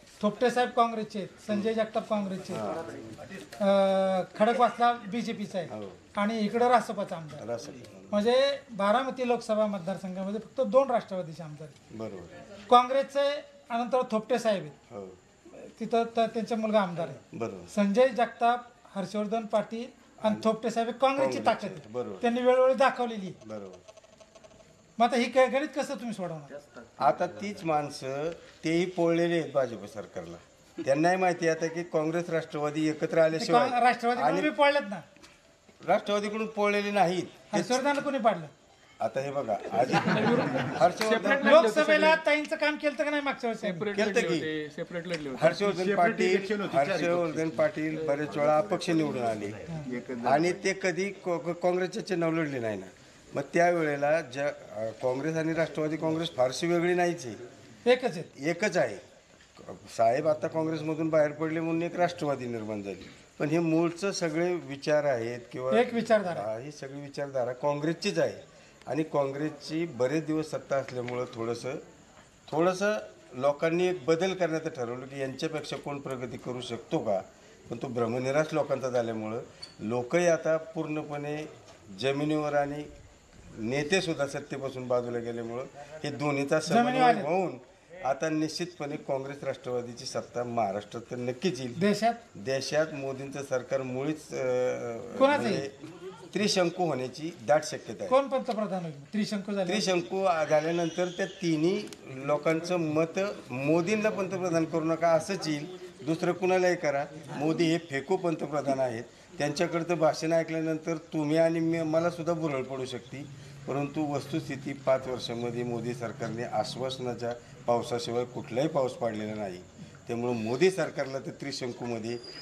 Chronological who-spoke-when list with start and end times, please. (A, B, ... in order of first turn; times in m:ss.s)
0:00.2-0:02.8 A
0:02.5-0:02.8 B
0:03.6-0:07.4 A
0:05.7-0:06.0 B
0:07.4-0:08.3 B
0:08.1-0:11.7 A
0:11.9-0:12.3 B
0:12.7-0:14.7 A
0:14.9-0:15.2 B
0:15.5-0:23.4 A
0:17.3-0:17.7 B
0:20.2-0:20.5 B
0:21.2-0:22.2 B
0:23.4-0:23.8 B
0:25.0-0:26.5 A
0:27.0-0:34.5 B
0:33.4-0:35.0 A
0:35.8-0:37.9 B
0:37.5-0:38.5 A
0:39.0-0:41.8 B
0:40.1-0:42.2 C
0:41.3-0:43.9 A
0:43.6-0:46.0 C
0:43.9-0:44.5 B
0:45.3-0:49.6 B
0:49.7-0:49.9 A
0:50.2-0:57.4 B
0:57.8-0:58.3 A
0:58.4-0:59.0 B
0:59.6-1:11.8 B
1:05.7-1:06.5 A
1:12.5-1:22.9 B
1:23.5-1:31.8 B
1:26.7-1:27.3 A
1:31.8-1:32.2 A
1:32.3-1:35.7 B
1:35.2-1:35.6 A
1:36.3-1:38.2 B
1:38.1-1:39.9 A
1:39.6-2:02.2 B